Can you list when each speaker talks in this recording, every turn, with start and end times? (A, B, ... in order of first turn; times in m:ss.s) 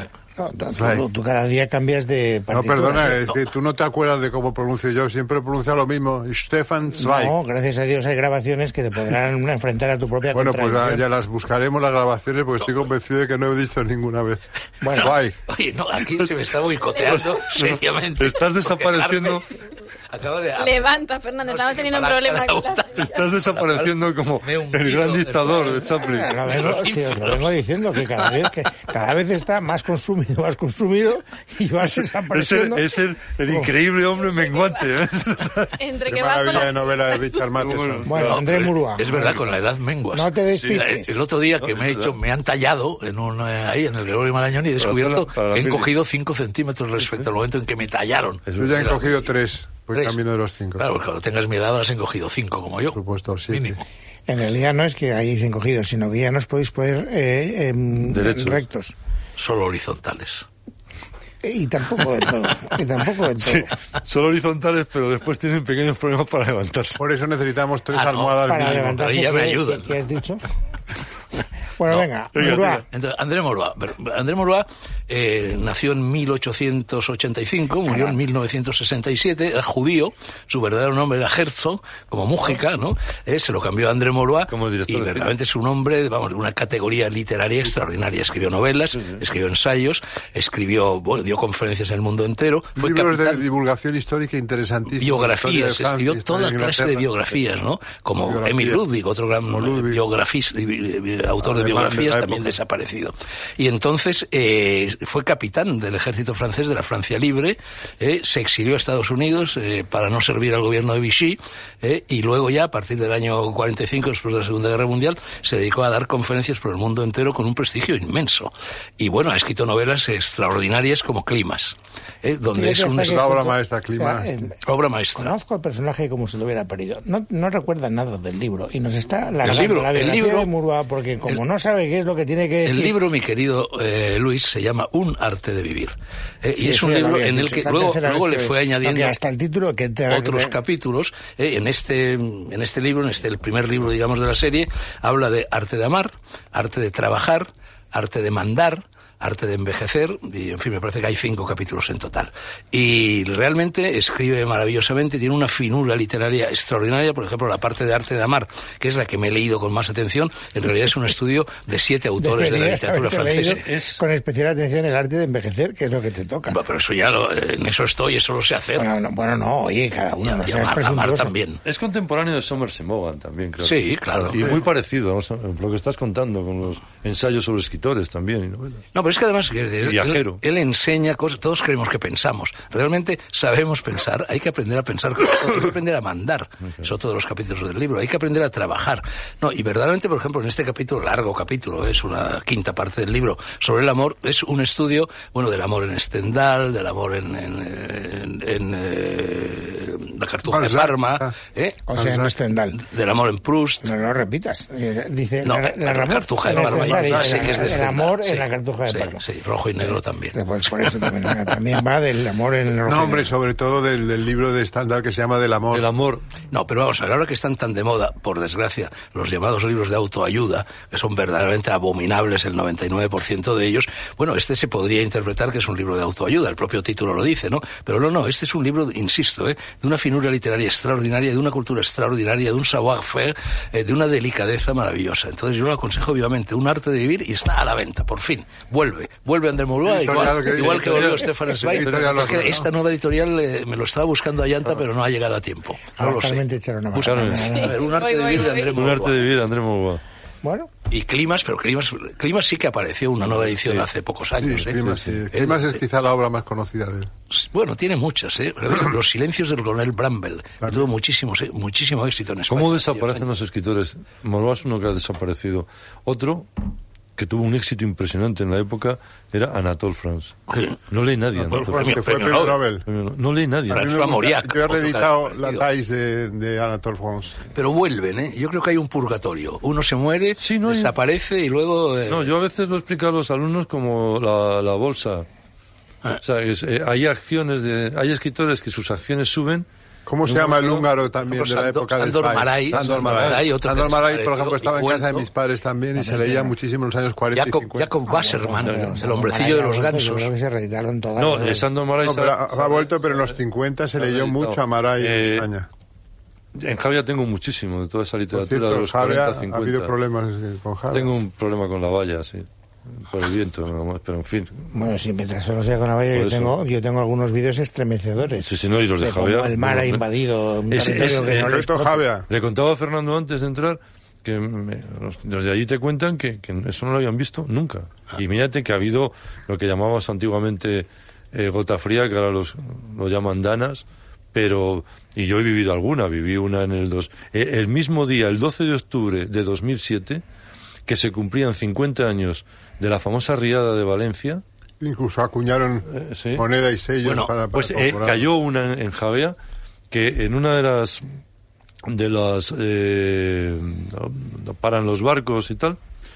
0:00.4-0:03.2 A
0:00.7-0:01.0 B
0:02.5-0:07.3 B
0:06.9-0:11.1 A
0:10.3-0:15.3 B
0:14.8-0:15.1 A
0:14.9-0:19.5 C
0:17.0-0:19.5 D
0:20.1-0:28.5 C
0:20.6-0:23.0 E
0:22.9-0:26.4 D
0:25.9-0:32.8 A
0:32.3-0:35.8 D
0:35.8-0:37.4 E
0:36.1-0:38.3 B
0:37.5-0:38.4 D
0:38.0-0:39.5 A
0:38.2-0:49.3 C
0:40.1-0:41.2 A
0:41.6-0:42.2 D
0:44.8-0:45.9 D
0:48.5-0:48.9 D
0:48.6-0:50.8 B
0:49.9-0:50.2 C
0:50.8-0:53.0 C
0:52.9-0:53.8 B
0:53.5-0:53.8 C
0:54.3-0:58.9 A
0:58.1-0:58.6 D
0:59.4-1:00.4 C
1:01.4-1:03.7 A
1:03.4-1:07.0 D
1:07.0-1:09.1 B
1:07.9-1:10.0 C
1:08.4-1:10.4 A
1:11.8-1:12.8 A
1:12.4-1:12.8 D
1:12.8-1:33.4 C
1:24.5-1:25.3 D
1:32.8-1:37.1 B
1:34.9-2:03.2 C
1:38.2-1:38.8 B
1:39.5-1:40.0 B
1:41.4-1:42.5 B
2:02.5-2:04.5 A
2:03.0-2:04.3 B
2:04.6-2:05.3 C
2:05.2-2:13.0 A
2:09.4-2:10.5 C
2:12.6-2:19.1 C
2:16.5-2:20.6 A
2:20.1-2:43.6 C
2:42.2-2:46.6 A
2:43.4-2:44.0 D
2:46.5-2:48.9 C
2:48.8-2:51.3 A
2:50.2-2:51.6 C
2:51.6-2:58.8 D
2:53.6-2:54.4 C
2:58.9-3:21.8 C
2:59.8-3:00.4 D
3:20.5-3:21.4 B
3:21.9-3:22.8 A
3:21.9-3:22.3 B
3:22.8-3:23.9 C
3:23.8-3:29.2 A
3:25.4-3:30.4 C
3:26.5-3:27.8 B
3:29.8-3:33.3 A
3:32.8-3:35.9 B
3:35.7-3:36.2 D
3:36.5-4:06.4 C
3:59.8-4:02.7 B
4:00.3-4:02.6 D
4:06.0-4:07.8 A
4:07.0-4:09.3 C
4:07.0-4:07.5 D
4:07.4-4:08.9 E
4:08.7-4:10.0 D
4:10.4-4:10.7 A
4:10.9-4:15.8 C
4:13.3-4:13.9 D
4:14.4-4:17.1 B
4:17.3-4:23.3 C
4:22.5-4:26.6 D
4:27.2-4:30.3 D
4:30.5-4:30.8 C
4:30.9-4:32.0 D
4:31.4-4:32.6 C
4:31.5-4:32.8 B
4:32.8-4:34.0 D
4:33.7-4:35.6 C
4:33.7-4:37.4 B
4:37.5-4:42.3 C
4:40.4-4:41.0 D
4:42.1-4:45.3 D
4:46.2-4:49.6 D
4:50.0-4:57.9 B
4:50.2-4:50.8 D
4:51.3-4:55.3 C
4:52.7-4:53.4 D
4:56.0-4:56.6 A
4:57.3-5:00.3 C
4:58.1-5:01.6 A
4:58.6-4:58.9 D
5:01.2-5:03.3 D
5:02.0-5:05.7 B
5:04.0-5:05.5 D
5:06.5-5:09.9 D
5:08.3-5:11.1 B
5:10.9-5:14.7 D
5:14.7-5:22.0 A
5:16.1-5:16.5 D
5:18.4-5:20.1 D
5:20.7-5:21.6 D
5:20.9-5:22.3 B
5:22.3-5:40.2 D
5:40.9-5:44.4 D
5:44.8-5:48.3 B
5:45.9-5:46.4 D
5:47.0-5:47.3 C
5:47.5-5:49.4 D
5:49.9-5:51.0 D
5:51.8-5:55.8 D